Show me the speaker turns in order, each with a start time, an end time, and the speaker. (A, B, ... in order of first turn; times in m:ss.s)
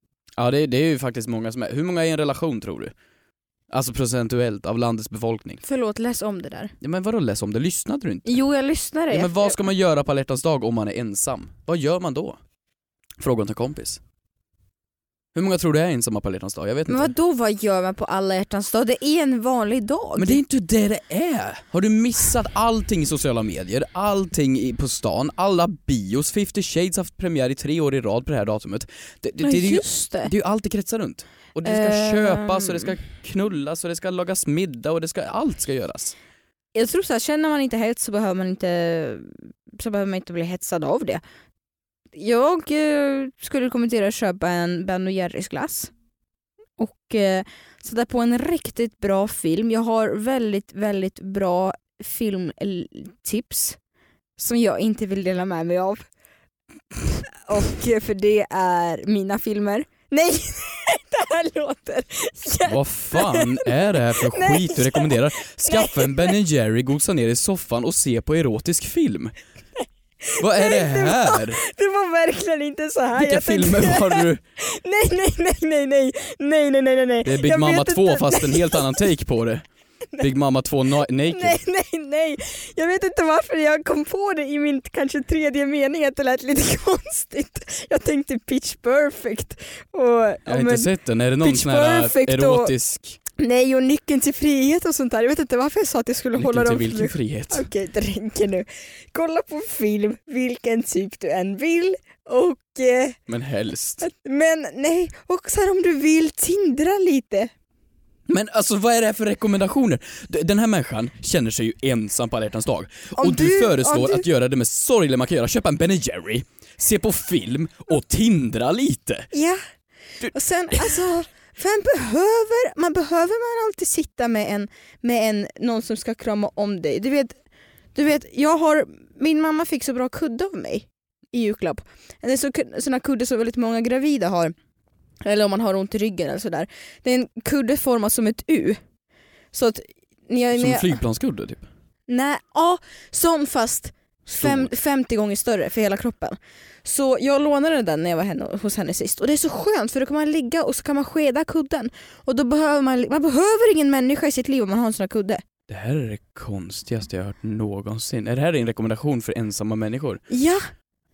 0:00.4-0:02.9 A
0:03.7-0:05.6 A
0:05.6-0:06.7 B
0:06.8-0:08.4 A
0:08.2-0:09.6 B
0:09.1-0:12.4 A
0:13.2-0:14.0 A
0:15.3-0:17.1 A
0:16.9-0:20.4 B
0:20.2-0:36.1 A
0:29.4-0:30.3 B
0:31.6-0:33.0 B
0:36.7-0:41.2 B
0:42.2-0:45.9 B
0:46.8-0:53.8 B
0:54.4-0:56.0 B
0:57.2-1:06.4 B
1:02.6-1:09.3 A
1:10.2-1:19.0 B
1:10.4-1:11.6 A
1:13.1-1:14.4 A
1:17.2-1:19.6 A
1:20.2-1:21.6 A
1:21.2-1:30.9 B
1:30.4-1:33.2 A
1:31.4-1:32.7 B
1:33.4-1:43.2 B
1:36.4-1:37.7 A
1:43.3-1:44.0 A
1:44.0-1:47.5 B
1:48.3-1:59.3 A
1:53.2-1:54.2 B
1:59.3-1:59.6 B
2:00.2-2:07.4 B
2:00.7-2:01.0 A
2:07.9-2:14.5 B
2:15.2-2:18.8 B
2:19.5-2:21.0 B
2:20.6-2:21.7 A
2:22.1-2:35.4 B
2:24.4-2:24.7 A
2:35.7-2:40.2 A
2:40.3-2:40.6 B